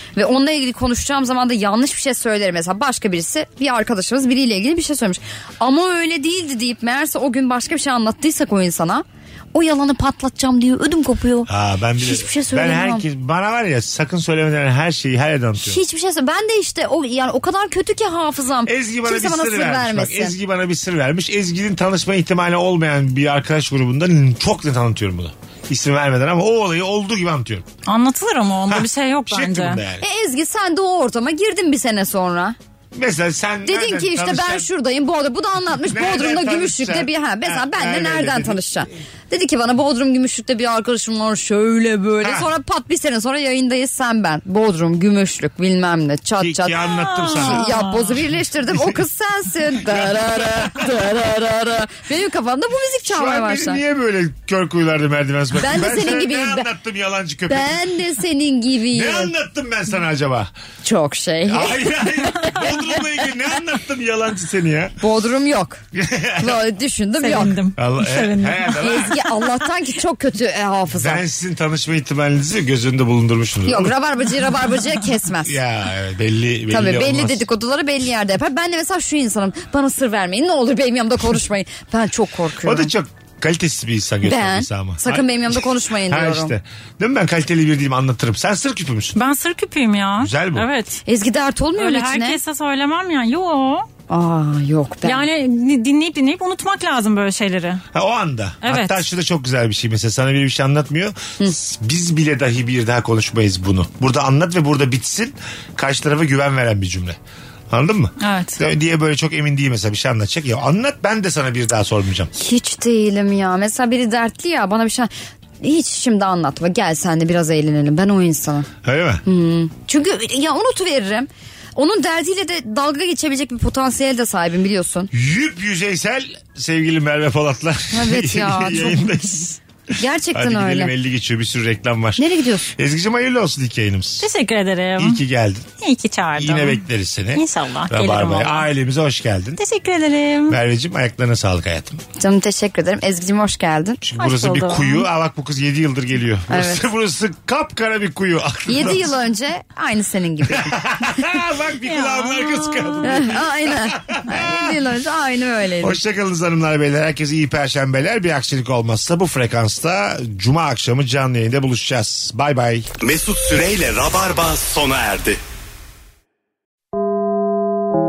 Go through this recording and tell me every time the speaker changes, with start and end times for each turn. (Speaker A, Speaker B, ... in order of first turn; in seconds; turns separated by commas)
Speaker A: 0.2-13.1, Speaker B: 11.5-15.8, Speaker A: 15.6-20.4, Speaker B: 18.7-27.7, Speaker C: 27.9-29.8, Speaker B: 28.7-30.1, Speaker A: 30.0-32.6, Speaker B: 32.9-34.7, Speaker A: 33.6-53.8, Speaker B: 35.9-38.8, Speaker B: 42.2-42.5, Speaker B: 46.4-47.7, Speaker C: 46.9-48.2, Speaker B: 49.9-50.2, Speaker B: 53.1-57.8, Speaker A: 55.6-56.7, Speaker A: 57.5-59.3, Speaker B: 58.9-60.5, Speaker A: 60.8-62.6, Speaker B: 61.5-65.0, Speaker A: 65.0-65.8, Speaker B: 65.9-66.7, Speaker A: 66.4-67.6, Speaker C: 67.2-68.8, Speaker B: 67.8-69.2, Speaker A: 68.8-71.2, Speaker B: 70.9-73.9, Speaker A: 73.7-75.6, Speaker B: 75.5-77.4, Speaker A: 76.7-82.9, Speaker B: 82.7-89.2, Speaker A: 84.2-86.5, Speaker C: 89.2-91.0, Speaker B: 90.2-90.7, Speaker A: 91.0-92.4, Speaker C: 91.8-93.9, Speaker A: 94.1-95.3, Speaker C: 95.0-97.8, Speaker B: 97.9-107.2, Speaker C: 98.6-99.0, Speaker B: 107.7-112.3, Speaker C: 108.2-108.6, Speaker A: 112.3-118.7, Speaker B: 118.8-119.2, Speaker A: 119.2-125.1, Speaker B: 125.1-129.6, Speaker A: 127.9-129.2, Speaker A: 130.0-130.9, Speaker B: 130.3-134.3, Speaker A: 132.2-132.7, Speaker C: 134.2-135.2, Speaker B: 135.0-135.7, Speaker C: 135.8-136.8, Speaker B: 136.4-139.6, Speaker C: 137.3-138.7, Speaker C: 139.6-140.6, Speaker B: 140.5-142.0, Speaker A: 142.2-144.0, Speaker B: 144.0-149.2, Speaker C: 144.2-145.1, Speaker A: 146.5-146.8, Speaker A: 148.7-150.7, Speaker B: 150.5-154.8, Speaker C: 151.8-153.3, Speaker A: 153.0-156.0, Speaker B: 155.8-162.9, Speaker D: 163.0-165.4